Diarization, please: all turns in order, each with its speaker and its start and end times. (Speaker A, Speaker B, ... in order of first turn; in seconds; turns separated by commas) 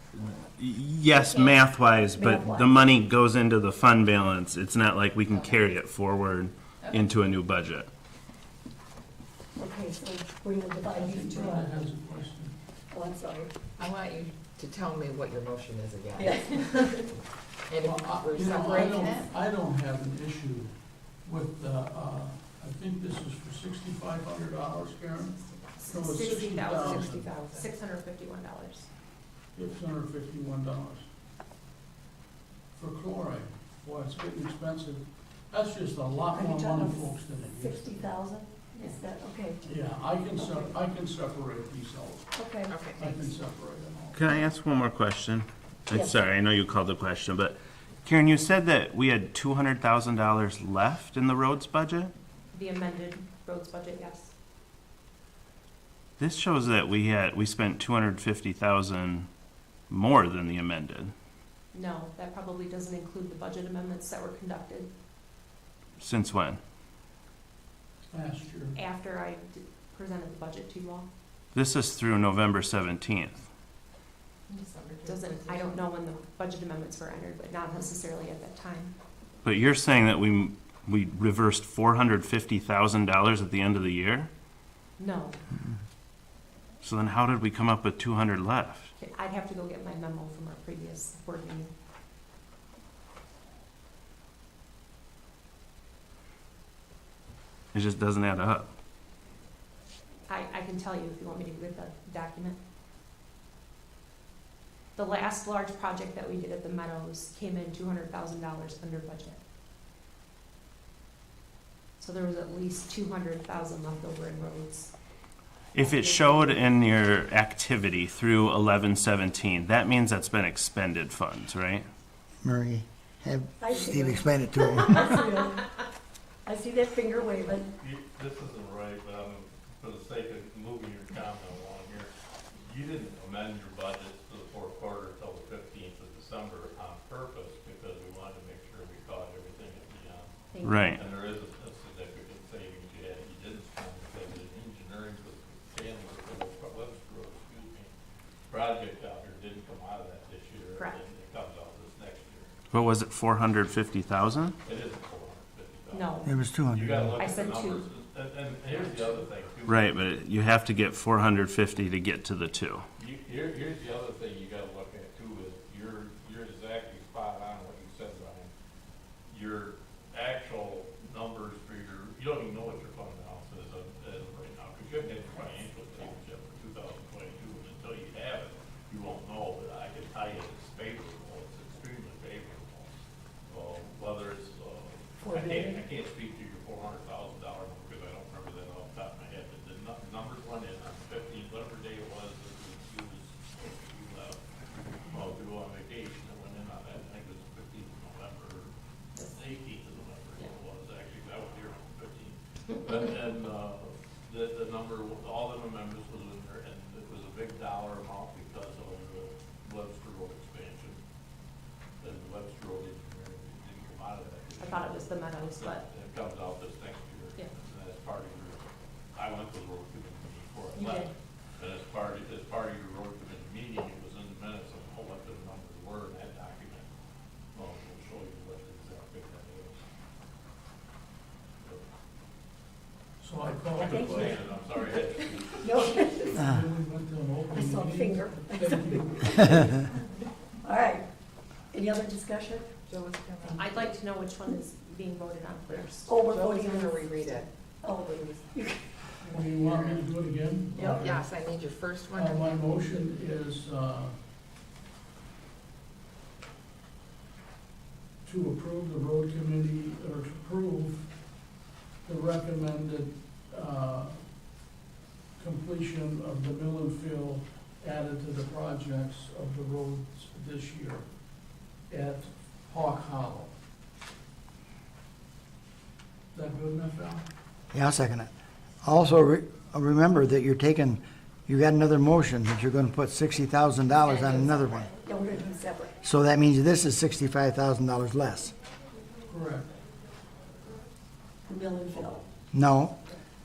Speaker A: 0.2-7.9, Speaker B: 2.1-2.8, Speaker B: 9.6-11.8, Speaker C: 10.9-12.5, Speaker B: 12.9-13.5, Speaker D: 13.8-17.1, Speaker B: 16.2-17.1, Speaker D: 17.7-19.3, Speaker C: 17.9-20.7, Speaker C: 21.2-25.4, Speaker E: 25.8-28.9, Speaker C: 25.9-27.1, Speaker D: 26.9-27.7, Speaker C: 29.6-31.0, Speaker C: 32.7-37.9, Speaker B: 36.3-39.6, Speaker C: 39.6-42.3, Speaker B: 40.4-40.8, Speaker B: 42.4-42.8, Speaker D: 42.7-43.3, Speaker C: 43.0-44.2, Speaker A: 44.1-52.1, Speaker E: 52.5-54.3, Speaker A: 56.2-59.3, Speaker A: 59.9-61.1, Speaker E: 61.7-64.9, Speaker A: 66.0-66.6, Speaker C: 68.1-68.7, Speaker E: 68.8-71.1, Speaker A: 71.5-73.5, Speaker D: 74.5-75.9, Speaker E: 75.0-78.9, Speaker A: 79.4-84.3, Speaker E: 85.0-85.4, Speaker A: 86.8-88.9, Speaker E: 89.0-91.7, Speaker A: 97.7-98.7, Speaker E: 100.3-102.6, Speaker E: 105.0-109.4, Speaker E: 112.0-114.9, Speaker A: 115.8-121.9, Speaker E: 115.8-116.7, Speaker F: 122.4-125.3, Speaker B: 123.6-125.8, Speaker B: 126.5-127.7, Speaker G: 127.8-140.3, Speaker E: 140.5-140.8, Speaker A: 140.6-141.0, Speaker G: 140.9-147.9, Speaker G: 148.5-152.6, Speaker A: 152.7-154.6, Speaker G: 154.6-159.8, Speaker E: 155.9-156.4, Speaker F: 156.3-157.1, Speaker E: 157.2-157.9, Speaker A: 159.7-162.8, Speaker G: 163.0-168.5, Speaker G: 169.3-182.9, Speaker G: 183.5-194.4, Speaker B: 185.2-185.8, Speaker G: 195.1-198.7, Speaker G: 199.2-211.0, Speaker G: 212.0-226.9, Speaker E: 214.6-215.8, Speaker E: 220.8-221.1, Speaker G: 227.5-229.8, Speaker C: 233.2-234.3, Speaker G: 233.7-235.8, Speaker B: 233.8-234.6, Speaker B: 235.6-236.5, Speaker C: 236.3-239.8, Speaker B: 237.5-239.1, Speaker B: 240.6-241.1, Speaker B: 241.7-242.7, Speaker D: 242.9-244.0, Speaker E: 243.5-246.1, Speaker D: 245.7-247.5, Speaker B: 246.1-248.8, Speaker C: 249.2-251.2, Speaker D: 249.3-250.1, Speaker B: 250.7-251.1, Speaker D: 251.0-253.0, Speaker C: 252.1-254.2, Speaker C: 258.2-261.1, Speaker C: 262.0-264.2, Speaker C: 265.4-271.1, Speaker C: 271.9-273.5, Speaker C: 276.3-277.2, Speaker F: 277.7-278.3, Speaker F: 278.8-284.9, Speaker B: 285.1-285.9, Speaker F: 286.0-288.5, Speaker C: 289.3-289.7, Speaker B: 291.5-292.2, Speaker F: 292.5-293.0